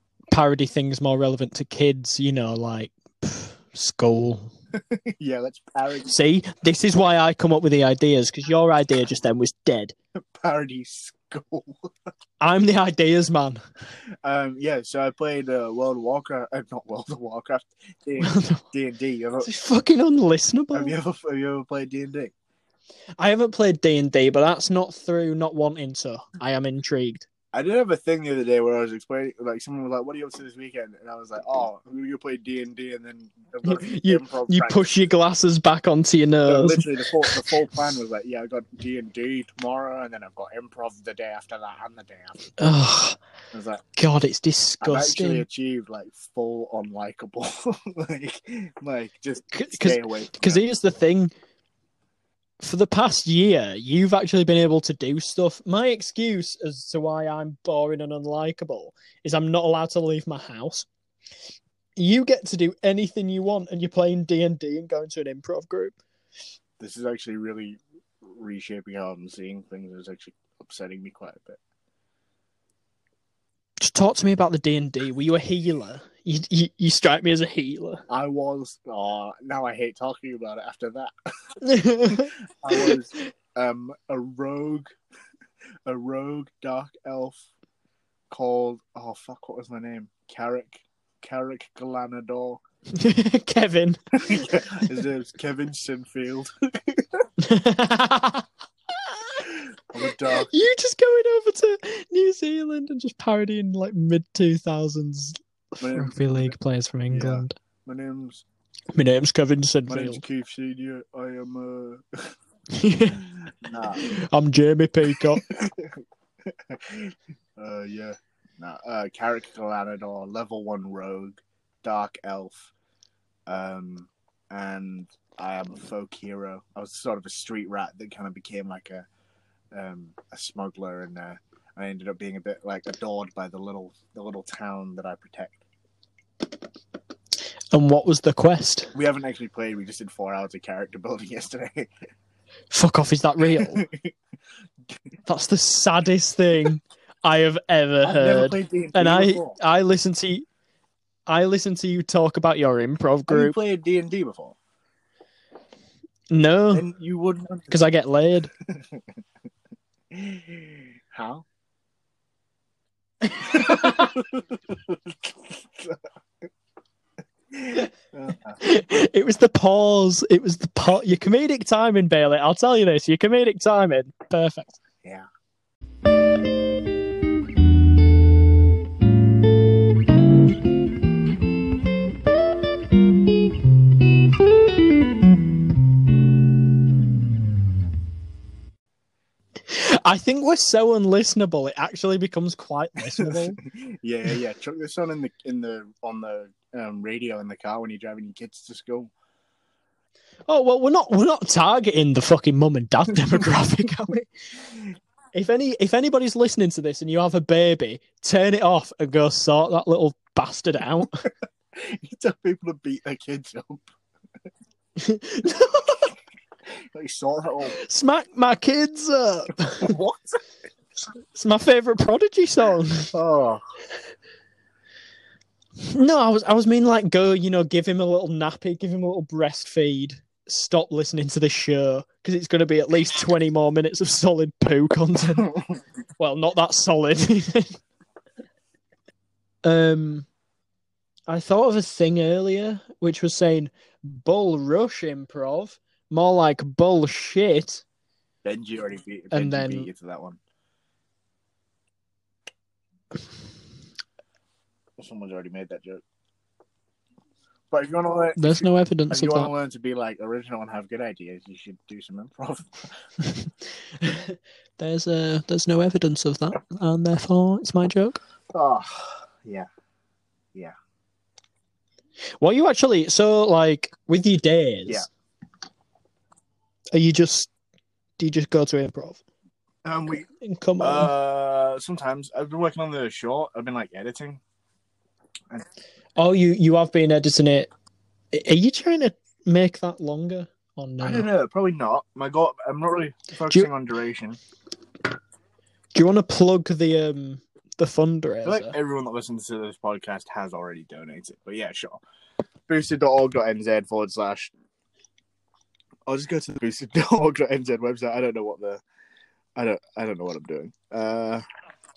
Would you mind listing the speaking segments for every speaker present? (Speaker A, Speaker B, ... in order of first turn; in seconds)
Speaker A: 0.3-4.5, 6.1-9.9, 12.4-13.6, 18.2-18.6, 19.4-20.9, 23.2-27.3, 33.6-37.5, 42.6-43.2, 44.0-45.5, 49.5-51.3, 52.6-60.9, 62.0-66.0, 73.8-78.0, 81.6-83.2, 92.9-94.8, 97.4-98.5, 99.1-99.4, 100.4-107.5, 108.9-110.2, 112.7-113.3, 114.0-115.4, 137.7-138.9, 142.7-143.8, 145.3-150.4, 151.3-153.6, 156.3-156.9, 157.7-158.5, 163.3-164.0, 168.6-174.8, 189.7-193.6, 200.5-204.3, 205.3-211.3, 215.0-216.1, 217.7-219.9, 221.3-223.1, 225.8-235.6, 236.2-237.8, 239.6-240.3, 241.3-247.8, 249.3-249.9, 258.4-259.5, 263.2-268.2, 272.4-275.1, 276.9-277.5, 278.2-279.2, 280.4-281.1, 286.2-287.7, 288.3-291.3, 295.9-298.8
Speaker B: 4.8-6.1, 10.2-11.9, 14.2-19.5, 20.7-22.3, 27.5-34.9, 36.5-42.4, 43.5-43.8, 44.8-50.6, 66.8-71.6, 78.1-81.1, 82.1-84.9, 85.9-87.5, 88.3-92.6, 94.2-97.2, 99.5-100.5, 105.8-106.5, 107.1-108.4, 109.9-112.2, 113.2-114.1, 115.3-122.7, 123.5-129.1, 129.7-135.6, 138.9-141.9, 143.5-144.1, 148.0-149.6, 153.3-154.6, 156.7-157.8, 158.7-159.0, 160.1-161.4, 163.4-166.0, 167.5-168.6, 193.1-199.1, 211.8-213.9, 216.9-217.8, 219.8-220.4, 223.1-223.6, 248.4-250.4, 255.0-256.0, 257.7-262.9, 268.5-269.7, 279.9-280.3, 280.8-284.4, 291.0-294.4, 298.4-302.0, 302.7-304.5, 306.1-308.8, 309.6-311.4